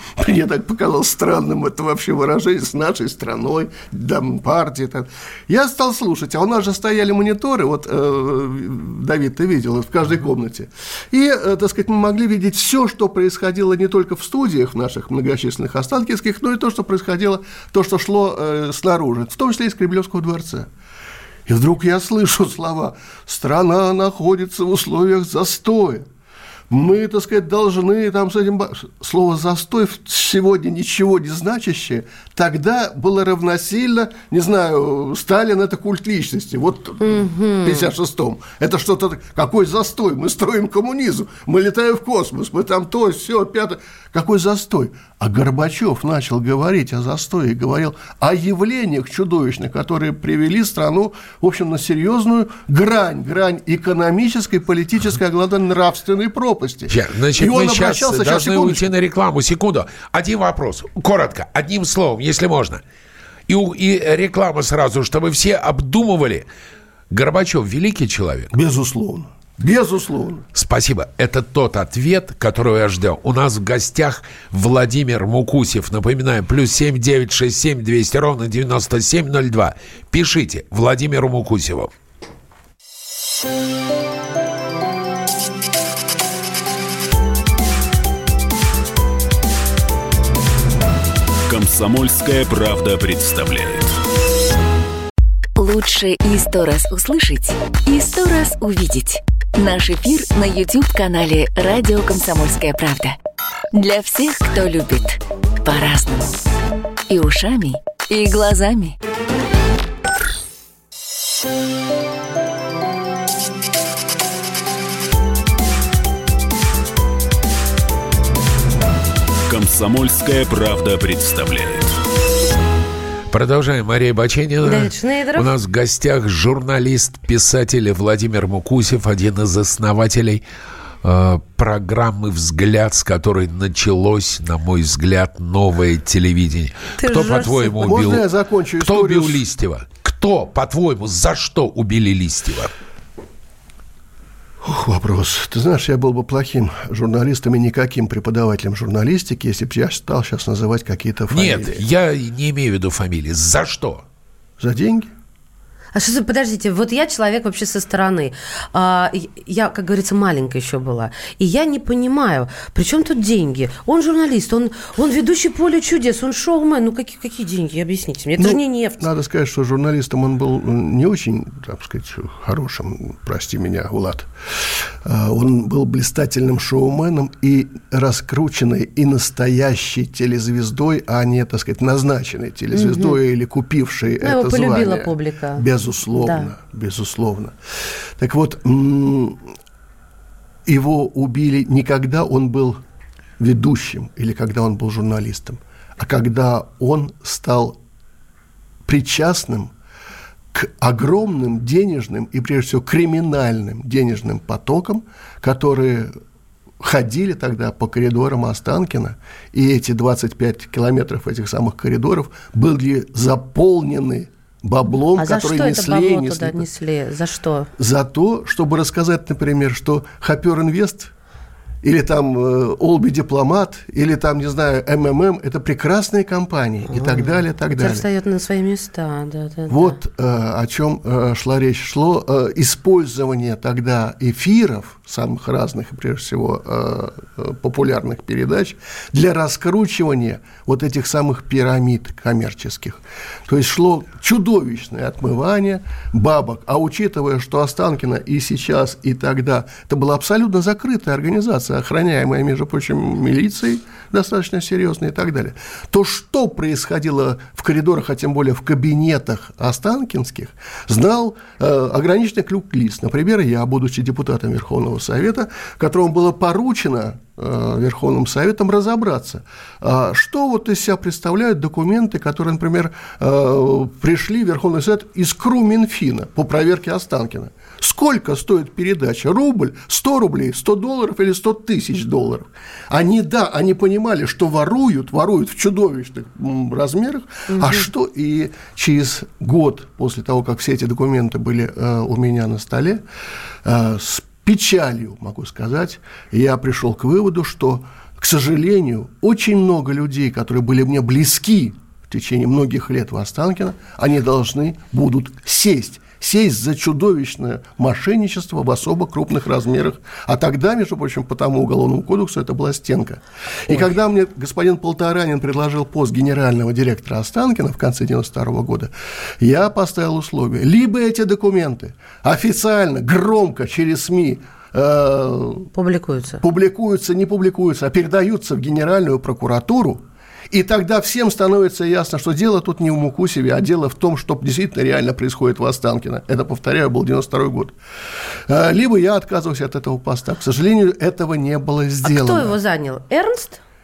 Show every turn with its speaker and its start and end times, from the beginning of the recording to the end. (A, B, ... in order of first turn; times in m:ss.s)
0:00.2-0:20.7 A
0:21.5-0:26.1 A
0:26.7-0:58.9 A
0:37.0-0:37.9 B
0:56.9-1:02.8 C
1:03.5-1:06.5 C
1:07.1-1:08.5 C
1:08.5-1:10.5 A
1:10.6-1:21.9 C
1:31.5-1:34.0 D
1:35.6-1:43.2 E
1:43.7-1:46.3 E
1:47.1-1:49.0 E
1:59.5-2:02.0 D
2:03.3-2:10.4 C
2:04.6-2:05.5 B
2:11.0-2:18.2 C
2:17.0-2:17.8 B
2:17.8-2:19.4 A
2:18.8-2:22.7 C
2:24.6-2:31.8 A
2:31.3-2:34.0 C
2:34.6-2:35.1 A
2:35.9-2:49.0 B
2:48.4-3:07.6 A
3:02.7-3:03.2 B
3:04.2-3:05.6 B
3:06.2-3:06.5 B
3:08.2-3:09.4 A
3:10.7-3:12.8 A
3:13.4-3:17.8 A
3:18.8-3:19.7 A
3:20.5-3:26.1 A
3:26.8-3:36.7 A
3:35.2-3:37.7 B
3:37.8-3:41.1 A
3:41.8-3:48.1 A
3:46.9-3:50.0 B
3:49.7-4:53.0 A
4:47.5-4:47.8 B
4:53.6-5:25.7 A
5:25.7-5:26.4 B
5:26.4-5:37.8 A
5:38.5-5:42.6 A
5:42.0-5:43.6 B